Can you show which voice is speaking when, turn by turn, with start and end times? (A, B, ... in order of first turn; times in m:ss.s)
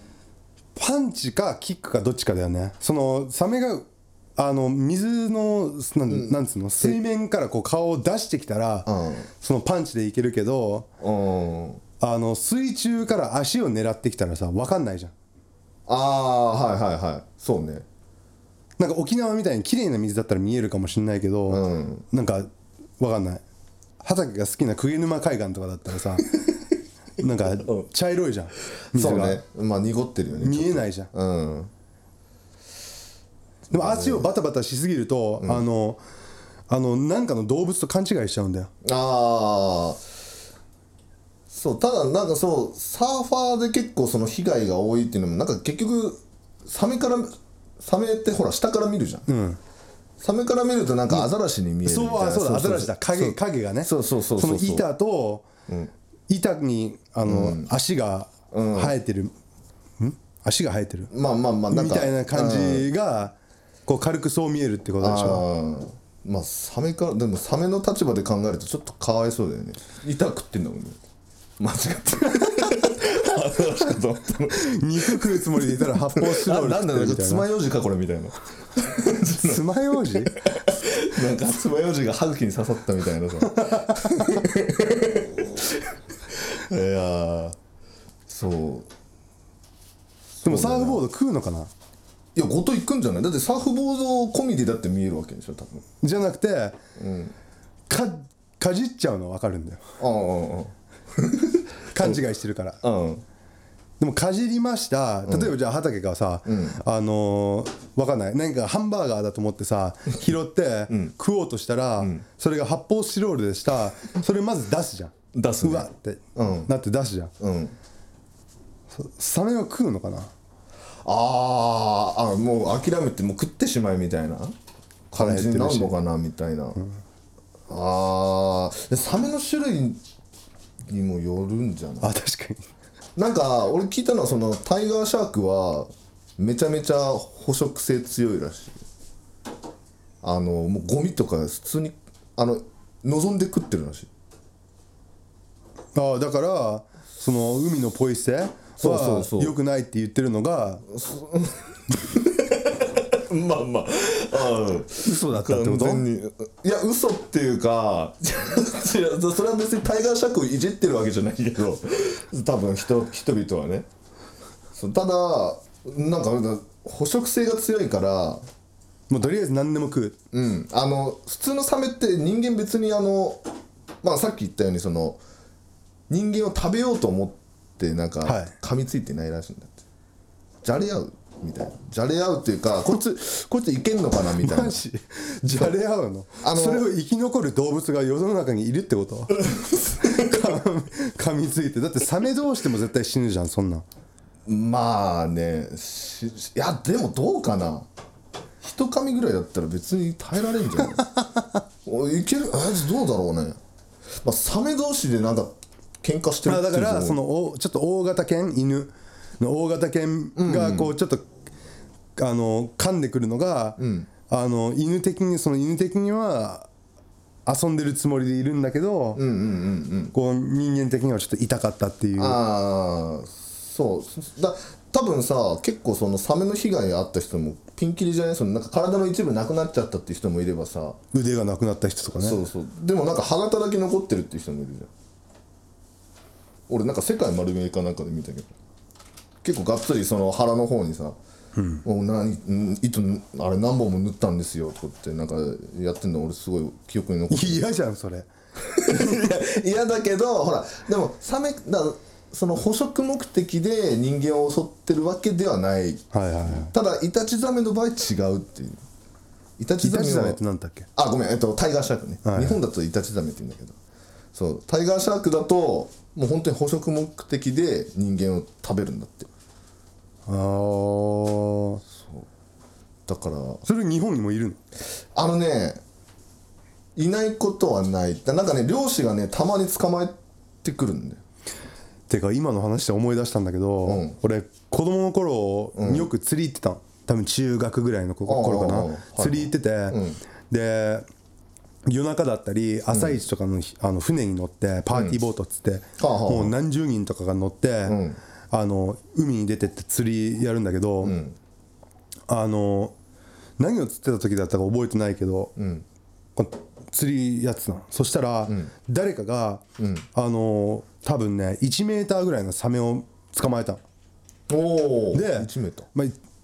0:00.8-0:10.9 A
0:06.1-0:07.0 B
0:08.9-0:09.3 B
0:11.0-0:11.8 B
0:12.0-0:15.1 A
0:15.9-0:17.8 B
0:18.8-0:23.4 A
0:21.5-0:22.0 B
0:24.0-0:26.4 A
0:27.2-0:29.4 A
0:28.9-0:31.7 B
0:30.4-0:31.1 A
0:33.7-0:34.3 B
0:33.7-0:36.0 A
0:36.7-0:38.7 A
0:38.8-0:40.0 B
0:41.5-0:49.3 B
0:49.3-0:49.6 A
0:50.2-0:54.9 B
0:51.8-0:55.5 A
0:56.3-0:59.3 A
0:57.2-0:57.7 B
0:58.5-0:59.0 B
1:00.0-1:01.1 A
1:01.1-1:02.9 B
1:01.7-1:03.4 A
1:03.9-1:05.4 A
1:05.0-1:11.0 B
1:11.6-1:25.8 B
1:14.5-1:17.5 A
1:19.4-1:20.4 A
1:23.6-1:24.4 A
1:26.5-1:27.6 B
1:28.3-1:28.9 B
1:30.4-1:31.1 B
1:30.4-1:31.7 A
1:32.4-1:35.8 B
1:36.0-1:36.8 A
1:37.0-1:37.3 B
1:37.9-1:39.8 A
1:40.0-1:42.2 B
1:41.9-1:42.8 A
1:42.8-1:43.2 B
1:44.0-1:57.3 A
1:45.3-1:45.6 B
1:46.4-1:46.8 B
1:50.9-1:51.1 B
1:52.0-1:52.2 B
1:55.3-1:56.7 B
1:57.4-1:57.8 B
1:58.9-2:00.3 A
2:01.0-2:04.5 B
2:05.1-2:06.8 B
2:05.1-2:05.9 A
2:07.7-2:10.0 B
2:10.9-2:12.1 B
2:12.0-2:12.7 A
2:13.2-2:18.8 B
2:20.2-2:24.1 B
2:25.9-2:30.8 A
2:28.8-2:29.6 B
2:30.9-2:43.9 B
2:35.0-2:36.1 A
2:44.8-2:48.4 B
2:49.1-2:50.2 A
2:50.3-2:53.4 B
2:54.0-2:55.2 B
2:56.1-2:59.8 B
2:58.2-2:58.5 A
3:00.6-3:04.8 B
3:04.4-3:13.8 A
3:05.4-3:05.8 B
3:06.4-3:06.9 B
3:14.4-3:17.9 B
3:18.6-3:21.0 B
3:21.8-3:23.6 B
3:24.2-3:27.2 B
3:26.4-3:31.2 A
3:30.4-3:31.0 B
3:32.2-3:36.7 A
3:33.8-3:34.1 B
3:37.4-3:39.2 A
3:39.1-3:40.1 B
3:40.1-3:42.4 A
3:42.2-3:51.0 B
3:51.1-3:52.4 A
3:52.2-3:54.9 B
3:56.7-3:58.5 B
3:59.4-4:01.2 B
4:01.6-4:01.8 A
4:01.8-4:07.7 B
4:07.3-4:08.3 A
4:08.6-4:18.8 B
4:16.1-4:16.7 A
4:19.6-4:20.4 B
4:19.8-4:20.9 A
4:21.0-4:23.8 B
4:22.2-4:22.6 A
4:24.3-4:29.3 B
4:30.2-4:31.8 A
4:31.9-4:32.3 B
4:33.0-4:33.6 B
4:33.6-4:34.6 A
4:35.1-4:35.8 B
4:37.0-4:41.2 B
4:42.1-4:51.0 A
4:43.8-4:44.2 B
4:45.8-4:46.1 B
4:48.2-4:50.2 B
4:51.9-4:58.0 A
4:52.9-4:53.2 B
4:54.9-4:55.2 B
4:56.0-4:56.6 B
4:57.9-4:58.2 B
4:58.5-5:01.2 A
5:01.0-5:01.4 B
5:02.3-5:02.9 A
5:03.6-5:05.5 A
5:05.6-5:05.9 B
5:06.4-5:13.8 A
5:08.5-5:08.7 B
5:09.8-5:10.0 B
5:14.5-5:15.9 B
5:15.1-5:16.1 A